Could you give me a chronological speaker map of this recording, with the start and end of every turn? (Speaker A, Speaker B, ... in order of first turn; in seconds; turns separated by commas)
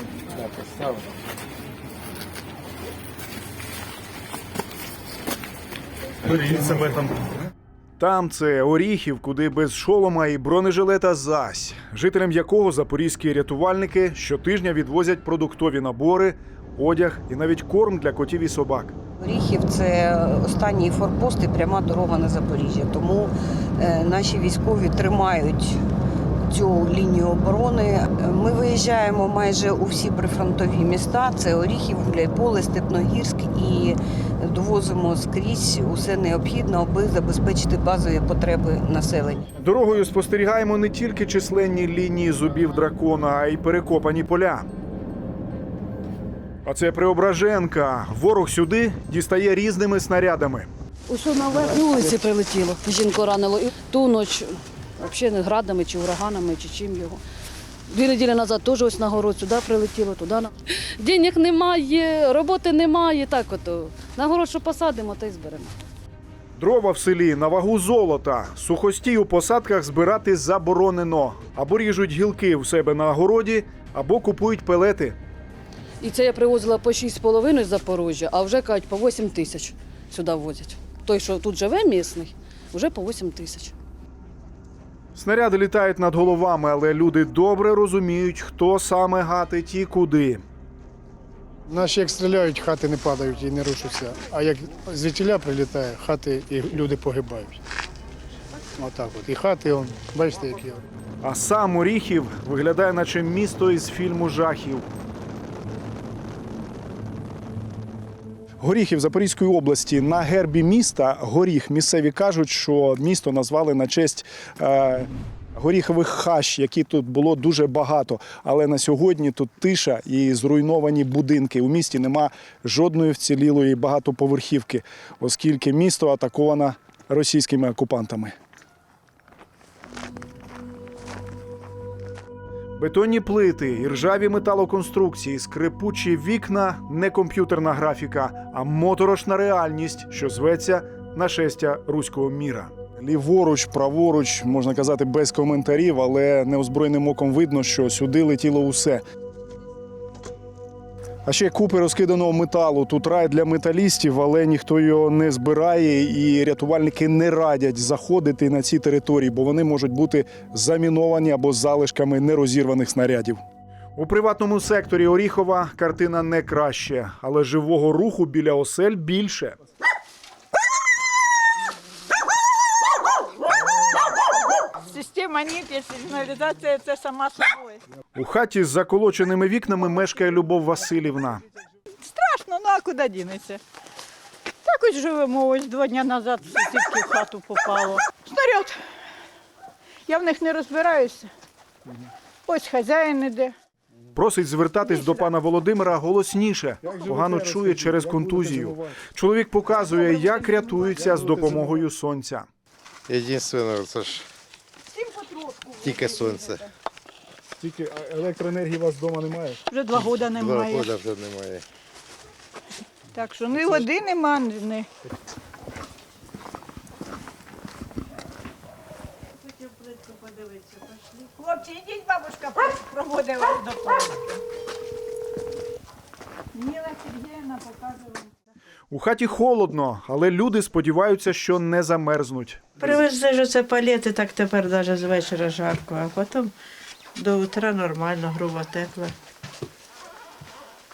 Speaker A: 8.0-18.9, Speaker B: 19.2-25.7, Speaker B: 26.5-34.0, Speaker B: 34.5-39.4, Speaker A: 39.6-44.7, Speaker A: 46.6-50.7, Speaker C: 51.1-57.2, Speaker C: 57.9-65.7, Speaker A: 66.5-75.2, Speaker C: 76.0-83.7, Speaker A: 85.1-90.4, Speaker D: 91.7-97.6, Speaker D: 98.8-100.8, Speaker A: 101.2-104.9, Speaker A: 108.6-128.3, Speaker A: 132.8-149.0, Speaker A: 151.2-163.4, Speaker A: 163.9-169.6, Speaker E: 174.8-177.8, Speaker A: 178.2-181.4, Speaker E: 182.0-183.6, Speaker E: 184.6-188.8, Speaker E: 190.1-191.3, Speaker E: 192.5-193.5, Speaker A: 194.2-202.5, Speaker F: 203.1-204.3, Speaker E: 205.0-206.1, Speaker F: 205.8-206.7, Speaker A: 207.6-209.6, Speaker E: 209.7-210.9, Speaker F: 209.9-211.6, Speaker E: 213.1-214.9, Speaker E: 221.3-224.4, Speaker E: 226.5-228.2, Speaker A: 228.9-232.6, Speaker G: 232.8-236.5, Speaker G: 237.2-239.1